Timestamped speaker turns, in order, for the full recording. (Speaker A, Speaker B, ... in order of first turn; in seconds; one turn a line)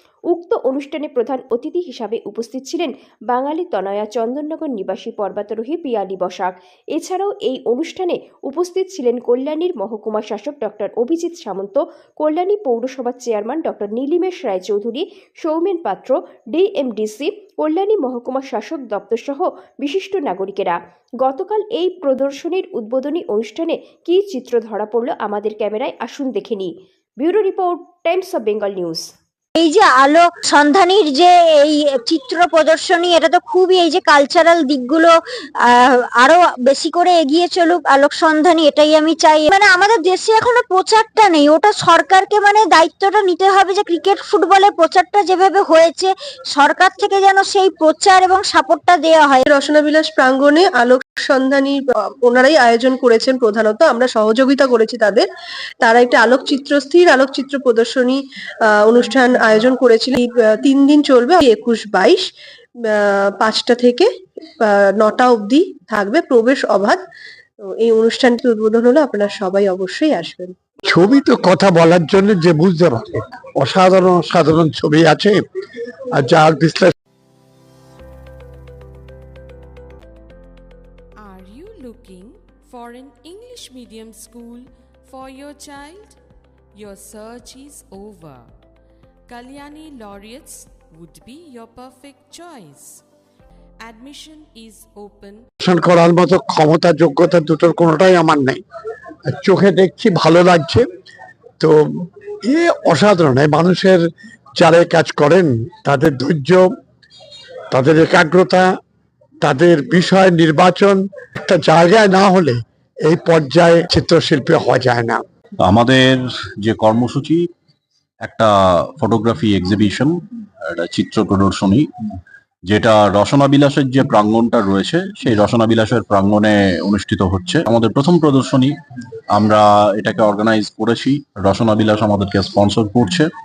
Speaker A: 0.3-29.1
Speaker B: 29.6-35.1
Speaker B: 35.7-49.4
Speaker C: 49.5-55.2
Speaker C: 55.8-58.2
Speaker C: 58.8-62.2
Speaker C: 62.9-64.1
Speaker C: 64.6-67.0
Speaker C: 67.6-70.5
Speaker D: 70.9-75.4
Speaker D: 76.1-76.9
Speaker E: 81.2-86.2
Speaker E: 86.7-88.5
Speaker E: 89.3-93.0
Speaker E: 93.8-95.4
Speaker D: 95.6-98.6
Speaker D: 99.2-100.9
Speaker D: 102.5-104.0
Speaker D: 104.6-106.7
Speaker D: 107.7-108.7
Speaker D: 109.4-115.2
Speaker F: 115.6-117.4
Speaker F: 118.2-120.1
Speaker F: 120.7-121.9
Speaker F: 122.7-128.7
Speaker F: 129.3-133.3